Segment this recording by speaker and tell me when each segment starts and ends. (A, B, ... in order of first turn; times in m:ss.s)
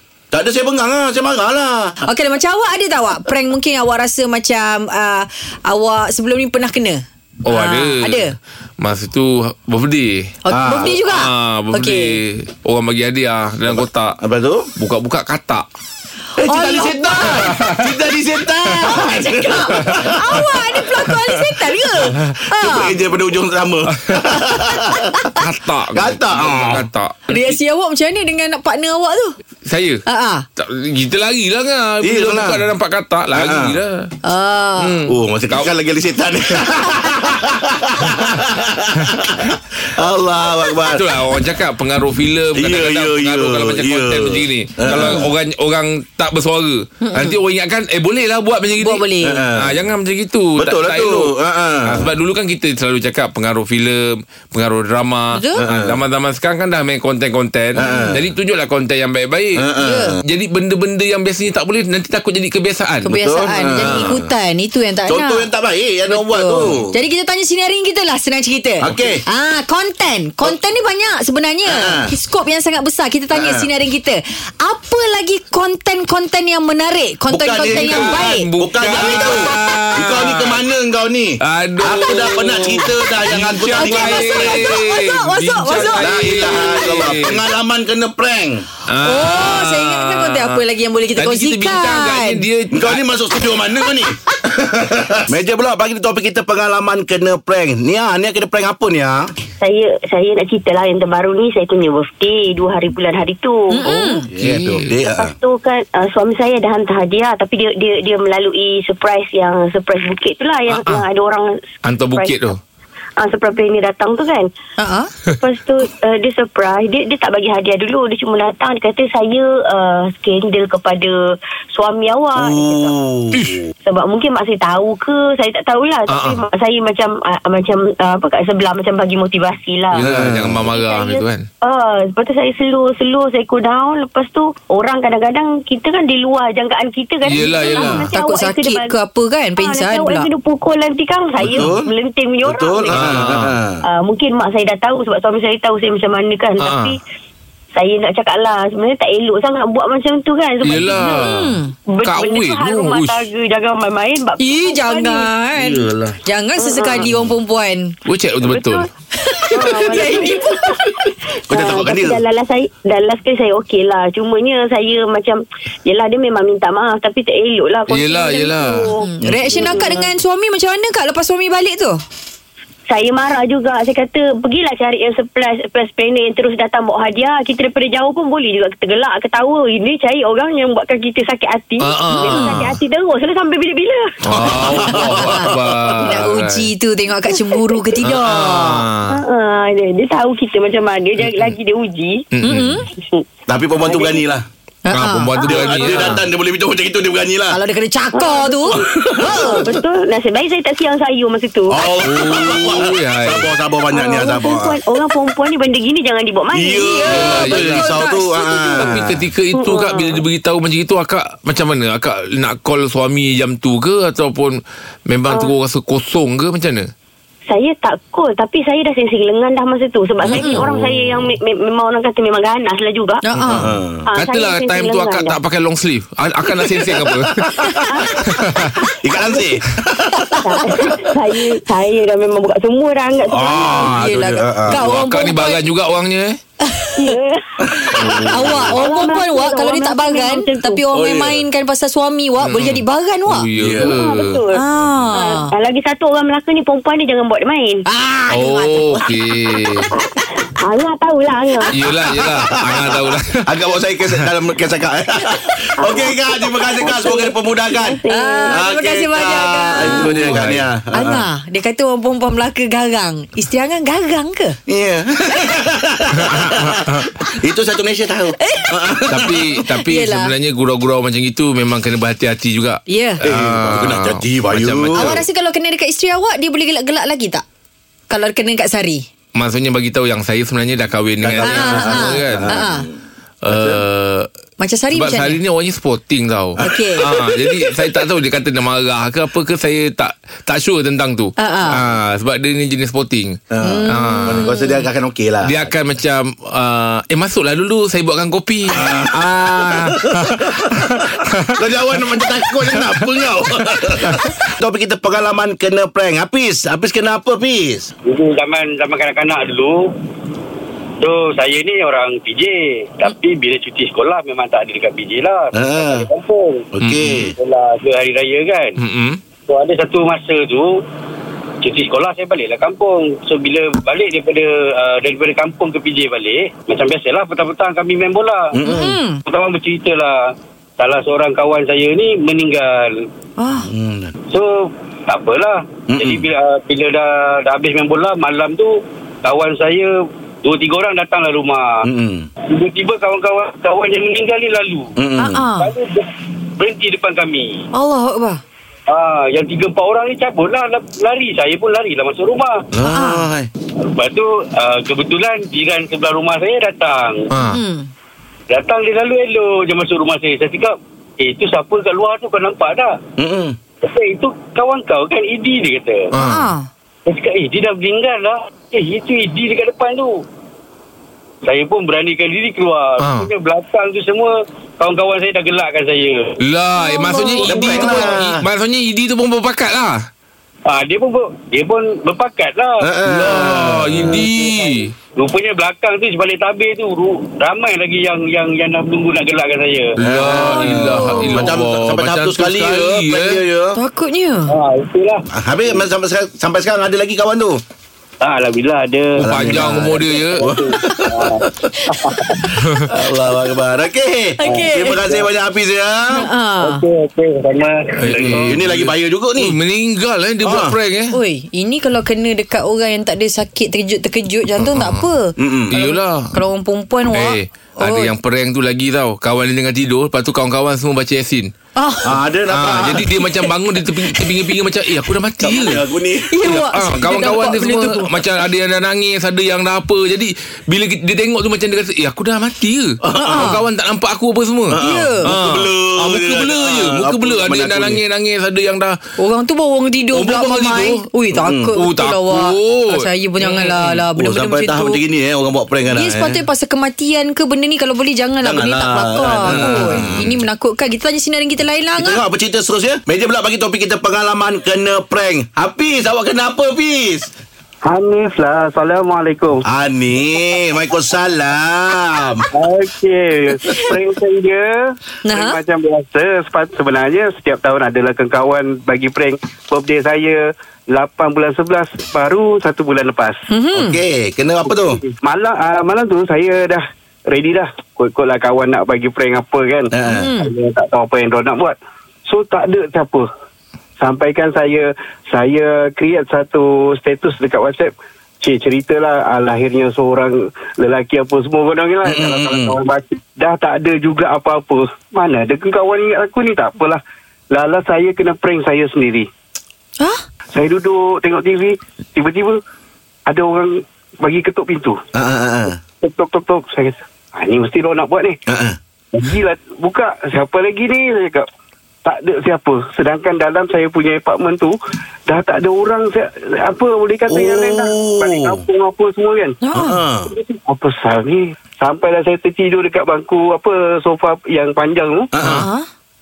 0:00.3-0:02.0 A
0:02.1-0:08.3 B
0:07.4-0:08.2 C
0:08.8-0:14.2 C
0:10.5-0:12.2 B
0:10.5-0:10.9 A
0:13.7-0:14.7 A
0:14.8-0:15.6 C
0:16.4-0:20.5 A
0:16.4-0:17.6 B
0:17.3-0:17.9 C
0:18.7-0:23.0 B
0:19.8-0:20.1 C
0:22.1-0:22.4 C
0:22.5-0:25.3 A
0:24.0-0:24.4 C
0:24.9-0:25.3 B
0:25.4-0:27.6 C
0:25.9-0:26.8 A
0:27.3-0:29.4 B
0:29.6-0:30.0 C
0:30.1-0:30.4 B
0:30.6-0:34.1 C
0:32.0-0:32.6 A
0:33.3-0:33.8 A
0:34.2-0:35.0 B
0:34.8-0:35.7 C
0:35.1-0:41.2 A
0:40.9-0:59.6 C
0:42.6-0:45.3 A
0:47.0-0:47.4 B
0:48.8-0:49.4 B
0:49.2-0:49.8 A
0:50.6-0:52.1 A
0:55.3-0:55.6 B
0:55.6-0:56.0 A
0:57.8-0:58.3 A
0:59.6-1:00.2 A
0:59.8-1:00.2 B
1:00.2-1:03.1 C
1:03.1-1:04.3 A
1:03.1-1:05.5 B
1:03.8-1:04.2 C
1:05.1-1:06.9 A
1:06.1-1:18.5 B
1:08.8-1:09.2 A
1:11.7-1:12.1 A
1:13.3-1:13.7 A
1:17.3-1:24.8 A
1:17.7-1:20.6 C
1:19.0-1:19.6 B
1:21.4-1:27.4 C
1:23.8-1:26.8 B
1:25.7-1:28.7 A
1:28.9-1:30.6 C
1:29.0-1:32.4 B
1:31.2-1:33.0 C
1:32.7-1:39.3 A
1:39.6-1:43.8 D
1:43.7-1:44.3 B
1:43.8-1:44.9 C
1:44.3-1:45.3 A
1:45.1-1:52.6 D
1:50.7-1:51.0 C
1:51.8-1:52.6 C
1:53.2-1:54.5 D
1:54.8-1:55.1 B
1:55.4-2:03.0 D
2:02.4-2:03.7 A
2:03.8-2:10.0 D
2:06.1-2:06.4 C
2:09.9-2:11.5 C
2:10.0-2:10.7 A
2:10.6-2:19.0 D
2:17.2-2:18.1 C
2:18.1-2:20.3 B
2:19.6-2:23.1 D
2:21.4-2:21.7 C
2:21.4-2:21.9 A
2:22.4-2:23.8 A
2:22.9-2:23.6 C
2:23.8-2:27.0 D
2:26.6-2:27.0 C
2:27.8-2:31.3 D
2:30.6-2:33.2 C
2:31.0-2:31.7 B
2:31.9-2:35.3 D
2:34.4-2:37.9 B
2:35.6-2:36.2 A
2:36.6-2:37.1 D
2:38.1-2:38.9 C
2:38.4-2:38.9 D
2:39.2-2:40.9 B
2:39.5-2:50.1 D
2:39.6-2:40.3 A
2:41.5-2:42.2 A
2:47.9-2:48.9 C
2:49.0-2:52.0 B
2:49.2-2:49.8 A
2:52.9-3:04.2 D
3:01.8-3:02.8 C
3:02.3-3:02.7 B
3:04.2-3:06.7 C
3:04.3-3:06.0 A
3:05.0-3:08.8 B
3:07.3-3:07.9 D
3:08.0-3:09.2 C
3:09.1-3:12.3 D
3:11.2-3:11.5 C
3:12.3-3:12.9 C
3:12.4-3:12.9 B
3:13.0-3:13.2 D
3:13.5-3:14.5 A
3:13.8-3:14.2 D
3:14.9-3:15.3 B
3:14.9-3:16.2 C
3:15.4-3:15.9 D
3:15.4-3:17.6 A
3:17.5-3:19.6 B
3:18.1-3:21.9 D
3:18.8-3:19.7 A
3:21.7-3:24.8 A
3:22.0-3:23.5 C
3:23.9-3:27.5 D
3:26.5-3:29.2 A
3:26.8-3:28.9 B
3:27.1-3:28.0 C
3:28.8-3:36.9 C
3:29.5-3:30.2 D
3:37.5-3:43.2 D
3:40.3-3:40.6 B
3:40.4-3:41.2 A
3:43.2-3:43.7 B
3:43.5-3:44.1 A
3:44.1-3:45.4 D
3:44.2-3:48.8 C
3:47.6-3:48.3 A
3:47.9-3:48.7 D
3:49.0-3:50.7 A
3:49.2-3:49.5 D
3:50.2-3:50.6 B
3:50.4-3:53.9 D
3:53.4-3:54.8 A
3:53.4-3:54.0 C
3:53.5-3:55.6 B
3:54.7-3:56.4 C
3:56.6-3:57.1 B
3:57.0-4:00.8 D
3:57.6-3:58.8 A
3:58.0-3:58.7 C
3:58.1-4:03.5 B
4:00.9-4:01.4 A
4:02.4-4:04.4 C
4:03.6-4:04.0 A
4:03.8-4:07.8 D
4:04.5-4:05.5 B
4:07.9-4:09.1 B
4:08.3-4:09.9 C
4:10.6-4:11.9 D
4:11.7-4:13.4 C
4:12.0-4:21.2 A
4:15.8-4:18.7 D
4:18.1-4:20.4 B
4:19.9-4:20.6 C
4:20.9-4:24.6 B
4:24.7-4:29.5 A
4:26.2-4:27.1 C
4:28.4-4:29.0 B
4:29.1-4:35.2 C
4:29.7-4:30.3 B
4:32.9-4:33.2 B
4:33.2-4:35.2 A
4:35.0-4:37.4 B
4:38.1-4:39.0 B
4:39.4-4:42.6 C
4:41.2-4:42.9 A
4:41.4-4:42.9 B
4:43.4-4:44.3 C
4:43.5-4:43.8 A
4:44.6-4:45.4 B
4:44.9-4:54.5 C
4:46.6-4:48.0 A
4:46.6-4:47.1 B
4:51.4-4:51.8 B
4:53.5-4:55.7 A
4:53.6-4:54.8 B
4:55.4-5:01.6 C
4:58.7-5:07.9 A
5:02.2-5:03.1 C
5:03.7-5:04.3 C
5:08.0-5:09.9 E
5:11.0-5:16.7 E
5:15.5-5:16.1 A
5:16.7-5:17.3 A
5:16.8-5:17.3 C
5:17.3-5:18.8 E
5:18.8-5:19.2 C
5:19.5-5:20.8 E
5:21.6-5:28.6 E
5:28.5-5:29.0 A
5:28.6-5:29.2 B
5:29.2-5:33.1 E
5:33.4-5:33.7 B
5:33.6-5:34.1 A
5:34.3-5:41.8 E
5:35.9-5:36.3 A
5:41.8-5:42.3 A
5:42.5-5:45.0 E
5:45.0-5:45.4 A
5:45.2-5:45.7 B
5:45.6-5:47.6 E
5:47.7-5:48.4 B
5:48.9-5:52.6 E
5:52.7-5:53.5 A
5:52.9-5:53.2 B
5:53.8-5:57.3 E
5:57.3-5:57.6 C
5:57.5-5:57.9 B
5:58.5-6:03.0 E
6:03.2-6:03.6 A
6:03.8-6:06.1 E
6:06.1-6:06.5 C
6:06.1-6:06.7 B
6:07.1-6:10.2 E
6:11.4-6:16.4 E
6:13.0-6:13.3 C
6:16.4-6:20.1 C
6:16.8-6:18.0 B
6:17.5-6:18.4 A
6:20.7-6:22.9 E
6:22.8-6:24.3 A
6:23.1-6:24.9 C
6:24.2-6:30.0 E
6:30.0-6:33.4 C
6:30.0-6:33.8 A
6:30.3-6:31.5 B
6:33.8-6:34.5 B
6:34.5-6:35.2 E
6:35.3-6:37.6 A
6:38.2-6:42.5 E
6:39.2-6:40.4 C
6:39.2-6:41.7 A
6:42.5-6:46.3 A
6:42.6-6:42.9 C
6:44.4-6:45.0 B
6:44.4-6:45.3 E
6:46.1-6:46.8 B
6:46.6-6:48.5 E
6:48.0-6:51.2 C
6:48.1-6:49.6 A
6:50.4-6:50.8 A
6:51.1-6:58.1 B
6:54.6-6:55.1 C
6:55.4-6:55.8 A
6:55.7-6:56.3 C
6:57.1-7:01.5 C
7:01.8-7:02.1 B
7:02.0-7:03.4 A
7:02.5-7:05.8 C
7:05.4-7:06.5 A
7:06.3-7:08.1 B
7:06.4-7:19.0 C
7:13.0-7:13.6 A
7:13.2-7:13.6 B
7:14.7-7:18.0 A
7:14.8-7:15.3 B
7:19.2-7:25.0 B
7:20.1-7:21.0 C
7:21.3-7:21.8 A
7:21.7-7:23.9 C
7:24.1-7:26.4 A
7:25.9-7:32.2 B
7:28.4-7:30.4 A
7:29.5-7:30.1 C
7:32.0-7:37.3 A
7:37.8-7:39.6 F
7:39.6-7:42.5 A
7:42.6-7:53.5 F
7:45.2-7:45.6 B
7:53.5-7:54.0 B
7:53.7-7:55.0 A
7:54.8-8:01.8 F
7:59.9-8:00.3 A
8:00.1-8:00.5 B
8:02.3-8:03.3 F
8:04.0-8:17.0 F
8:12.0-8:12.8 A
8:17.5-8:19.3 F
8:20.5-8:22.6 F
8:23.3-8:25.0 F
8:25.1-8:25.8 A
8:26.0-8:28.4 F
8:28.5-8:28.8 A
8:29.1-8:31.5 F
8:32.0-8:34.8 F
8:35.3-8:39.6 F
8:37.3-8:38.6 A
8:39.6-8:40.0 B
8:39.7-8:40.3 A
8:40.3-8:45.3 F
8:45.3-8:45.7 A
8:45.5-8:45.9 B